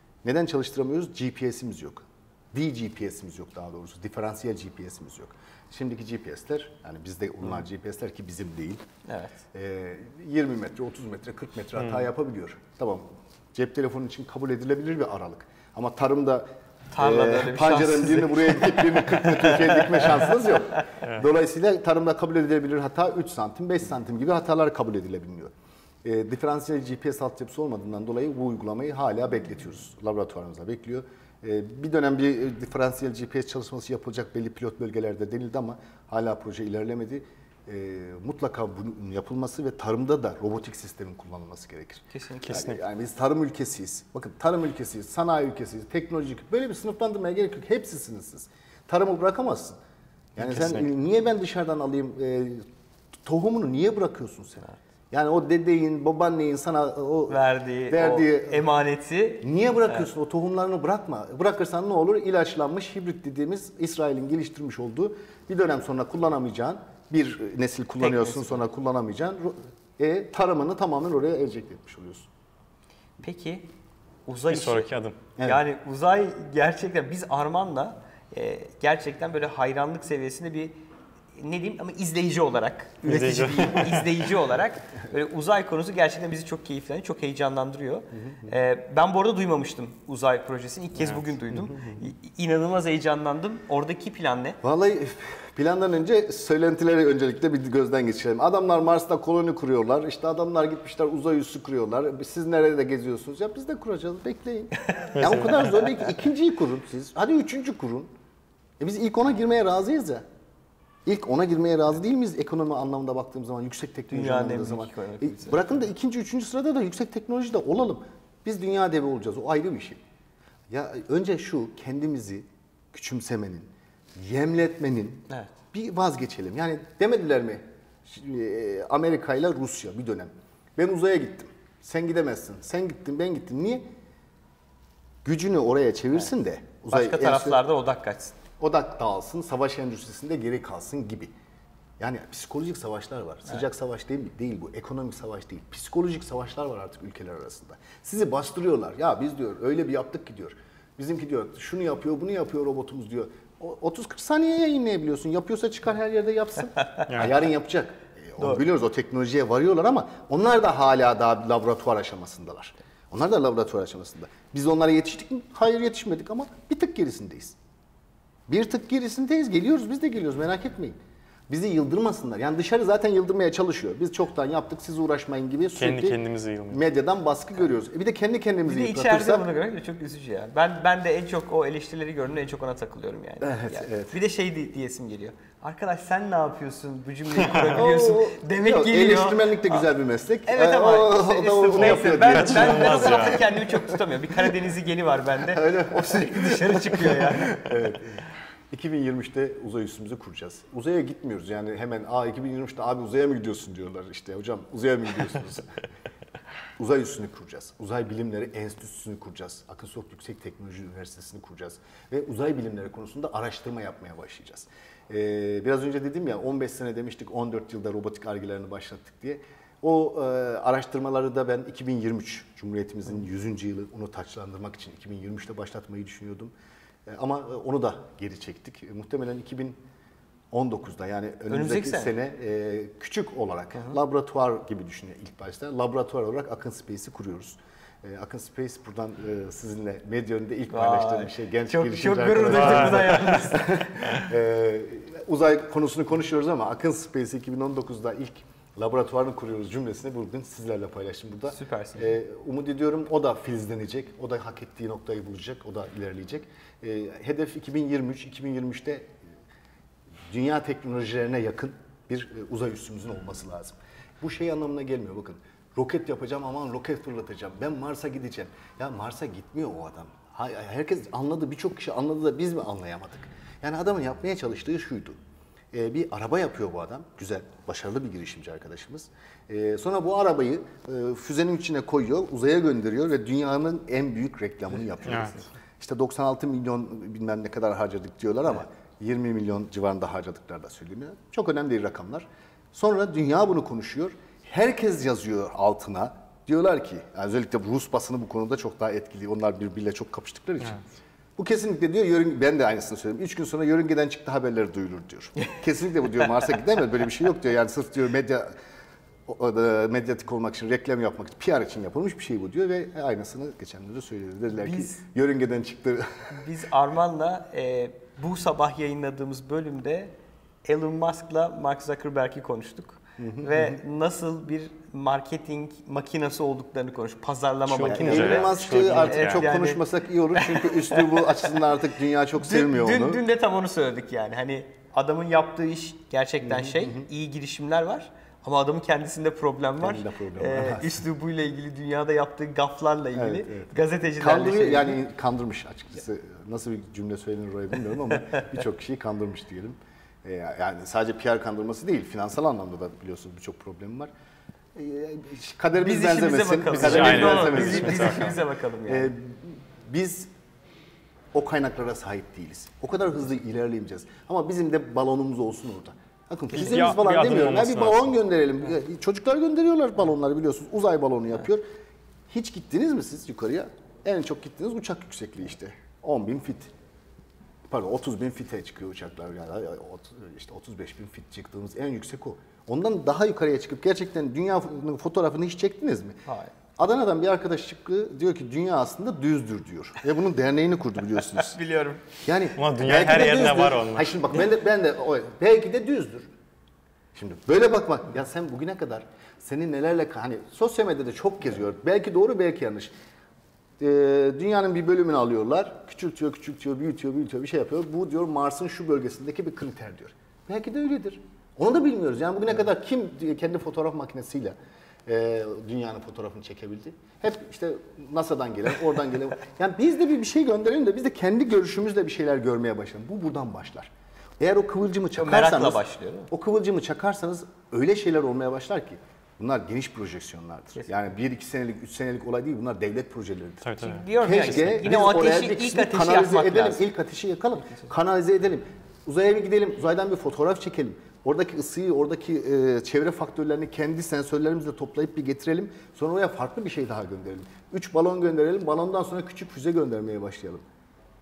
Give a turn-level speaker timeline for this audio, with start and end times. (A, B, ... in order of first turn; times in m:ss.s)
0:00.2-0:08.8 A
0:09.1-0:09.4 B
0:09.5-0:25.5 A
0:16.9-0:20.8 B
0:26.0-0:49.8 A
0:42.1-0:42.7 B
0:42.5-0:42.8 C
0:50.4-0:52.7 A
0:50.4-0:50.7 C
0:53.2-0:58.7 A
0:57.3-1:00.1 B
0:59.4-1:12.3 A
1:08.0-1:08.6 B
1:13.2-1:13.7 B
1:14.3-1:20.8 B
1:14.5-1:15.2 C
1:21.4-1:34.6 B
1:23.0-1:24.1 C
1:28.1-1:28.6 A
1:31.0-1:31.3 C
1:31.5-1:32.0 A
1:34.6-1:48.1 A
1:45.2-1:45.7 C
1:48.8-1:50.2 A
1:51.0-2:00.0 A
1:54.1-1:55.7 B
2:00.7-2:13.9 A
2:15.2-2:17.6 A
2:16.9-2:18.4 B
2:18.6-2:21.3 A
2:22.0-2:47.6 A
2:38.4-2:38.6 B
2:48.5-2:51.0 A
2:51.5-2:56.2 A
2:55.8-2:56.8 C
2:56.7-2:59.5 A
2:58.6-3:09.9 B
3:03.4-3:04.2 A
3:07.7-3:14.6 A
3:10.5-3:17.6 B
3:11.8-3:13.4 C
3:15.4-3:25.8 A
3:26.8-3:46.5 A
3:47.1-3:49.8 A
3:50.5-4:19.2 A
3:51.5-3:52.1 B
4:00.7-4:03.9 B
4:02.6-4:03.1 C
4:11.5-4:12.2 B
4:20.3-4:35.2 A
4:35.7-5:00.8 A
4:45.1-4:45.4 C
5:01.4-5:08.6 A
5:09.3-5:16.4 A
5:14.6-5:15.0 B
5:16.3-5:20.1 B
5:20.6-5:31.6 B
5:23.2-5:23.8 A
5:27.7-5:29.5 C
5:27.8-5:33.2 A
5:32.4-5:45.0 B
5:36.4-5:37.1 A
5:39.8-5:41.0 A
5:43.2-5:54.1 A
5:48.1-5:48.5 B
5:54.8-6:00.3 A
5:55.8-5:59.1 B
5:56.7-5:58.4 C
6:01.3-6:11.6 A
6:06.5-6:08.1 C
6:12.3-6:16.7 A
6:17.7-6:26.2 A
6:26.3-6:26.5 B
6:26.8-6:31.6 A
6:31.3-6:32.0 B
6:32.2-6:36.3 A
6:32.6-6:34.1 C
6:37.1-6:42.9 A
6:43.8-6:54.6 A
6:55.1-7:30.6 A
7:05.2-7:06.3 B
7:13.6-7:14.8 C
7:13.8-7:16.9 B